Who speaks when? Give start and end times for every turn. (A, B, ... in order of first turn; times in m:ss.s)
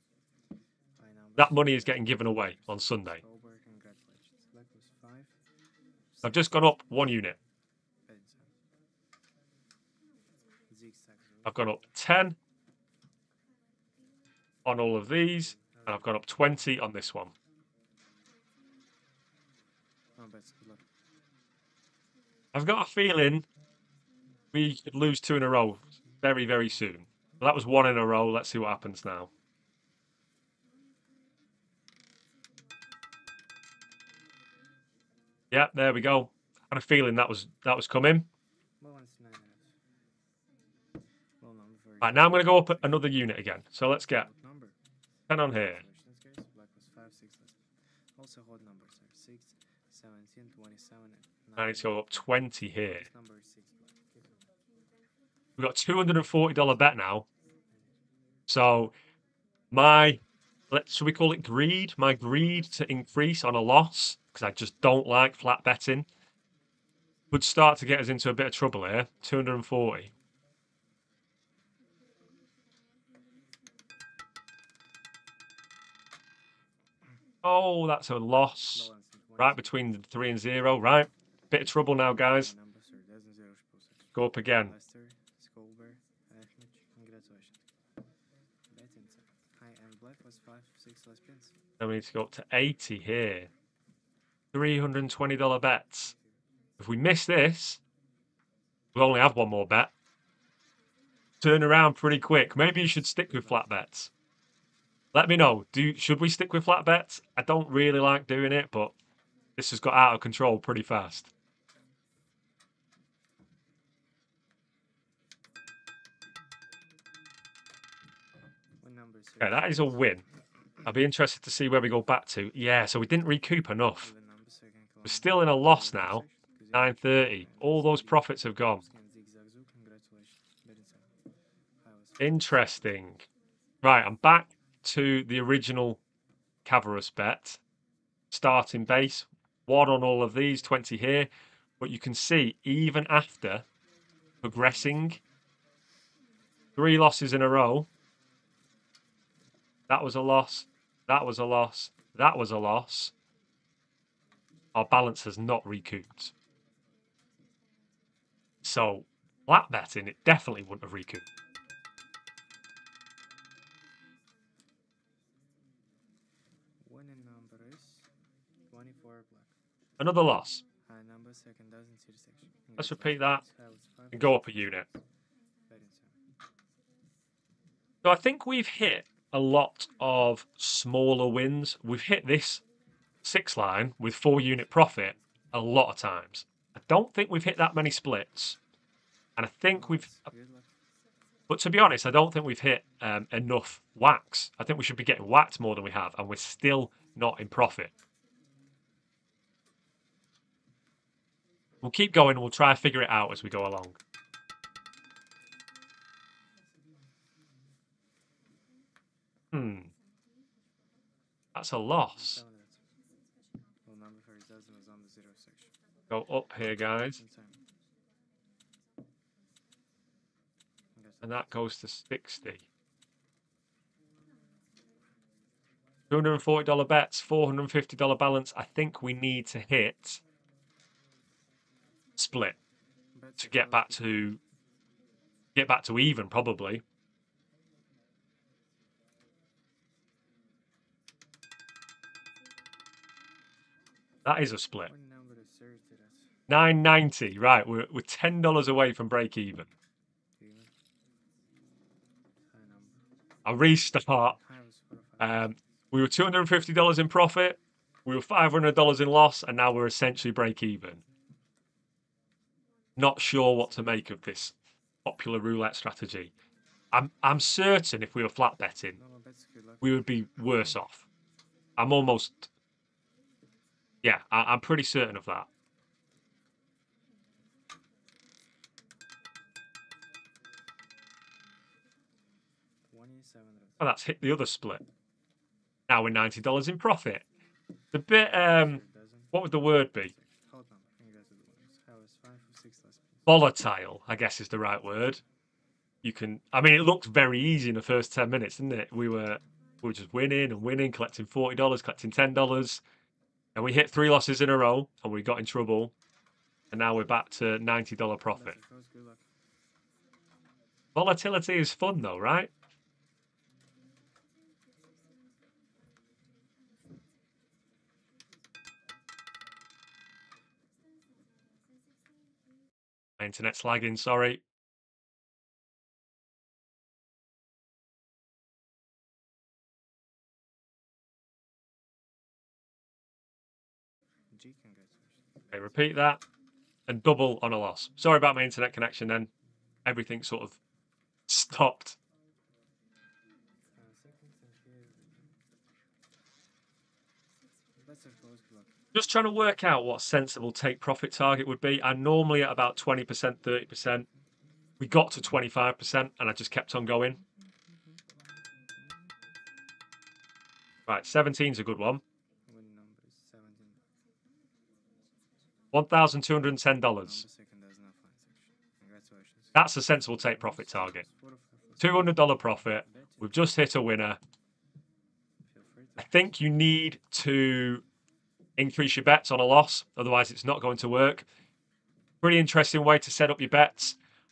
0:01.1-0:02.1 A
0:01.4-0:03.2 B
0:03.2-0:05.3 A
0:06.2-0:07.4 B
0:08.1-0:08.4 A
0:10.8-0:11.1 A
0:11.4-0:12.4 B
0:14.6-0:17.3 B
0:20.2-0:20.8 A
0:22.5-0:23.4 B
0:24.5-0:29.3 B
0:35.5-0:38.2 B
0:38.8-0:39.6 A
0:41.4-0:42.2 A
0:42.0-0:44.3 B
0:44.3-0:44.7 A
0:45.3-0:45.8 B
0:45.8-0:47.5 A
0:48.2-0:51.6 A
0:51.6-0:53.1 B
0:53.0-0:53.9 A
0:55.6-0:57.2 B
0:58.5-0:58.9 B
0:59.7-1:06.1 B
1:07.3-1:10.1 B
1:17.4-1:22.5 B
1:19.2-1:19.5 A
1:22.6-1:23.8 A
1:24.1-1:24.7 B
1:24.8-1:27.5 A
1:28.8-1:31.5 A
1:31.8-1:33.5 B
1:34.5-1:36.1 B
1:36.8-1:37.8 B
1:38.9-1:39.9 B
1:41.4-1:44.1 B
1:45.1-1:48.9 B
1:49.6-1:51.3 B
1:58.9-1:59.5 A
1:59.4-2:00.2 B
2:00.8-2:04.1 B
2:04.3-2:05.0 A
2:05.0-2:08.8 B
2:05.7-2:06.8 A
2:07.6-2:08.0 A
2:08.9-2:11.0 A
2:12.2-2:13.3 B
2:13.8-2:16.0 B
2:16.6-2:17.6 B
2:18.3-2:23.6 B
2:24.4-2:25.2 B
2:26.8-2:27.9 B
2:29.9-2:33.1 B
2:34.7-2:36.3 B
2:38.6-2:41.2 B
2:46.9-2:48.0 A
2:48.7-2:49.5 A
2:50.0-2:50.6 B
2:50.9-2:54.2 A
2:52.8-2:53.4 B
2:54.1-2:54.9 B
2:55.7-2:56.0 A
2:58.0-3:02.6 B
3:03.2-3:08.6 B
3:09.4-3:10.2 B
3:10.0-3:10.4 A
3:11.5-3:17.9 B
3:21.8-3:24.0 B
3:29.5-3:29.9 B
3:31.5-3:32.4 B
3:32.4-3:32.7 A
3:33.9-3:35.7 A
3:36.1-3:37.2 B
3:41.2-3:42.6 B
3:46.1-3:50.2 B
3:52.2-3:52.6 B
3:53.2-3:53.9 A
3:53.4-3:54.4 B
3:55.5-3:56.8 B
4:04.2-4:04.9 B
4:04.9-4:06.2 A
4:06.5-4:09.7 B
4:12.6-4:12.9 A
4:13.4-4:14.4 B
4:14.6-4:15.2 A
4:15.2-4:21.0 B
4:23.0-4:26.3 B
4:26.9-4:29.0 B
4:29.2-4:29.8 A
4:29.8-4:31.0 B
4:31.8-4:32.5 B
4:34.0-4:35.5 B
4:42.9-4:43.8 A
4:43.8-4:44.8 B
4:45.9-4:47.2 B
4:47.9-4:50.1 B
4:50.2-4:53.0 A
4:53.2-4:55.2 B
4:56.0-5:02.8 B
5:03.5-5:05.9 B
5:06.7-5:08.6 B
5:08.5-5:09.2 A
5:10.9-5:12.5 B
5:23.2-5:24.4 B
5:34.4-5:35.1 A
5:35.5-5:36.2 B
5:36.9-5:39.3 B
5:39.8-5:40.6 B
5:41.3-5:42.0 B
5:43.8-5:45.1 A
5:47.9-5:48.6 A
5:48.9-5:54.0 B
5:54.8-5:57.2 B
6:00.9-6:02.0 B
6:02.5-6:03.6 A
6:05.7-6:07.2 B
6:07.2-6:08.2 A
6:09.5-6:11.0 B
6:11.0-6:11.8 A
6:11.8-6:14.2 B
6:16.0-6:17.8 B
6:18.6-6:21.3 B
6:22.2-6:24.0 B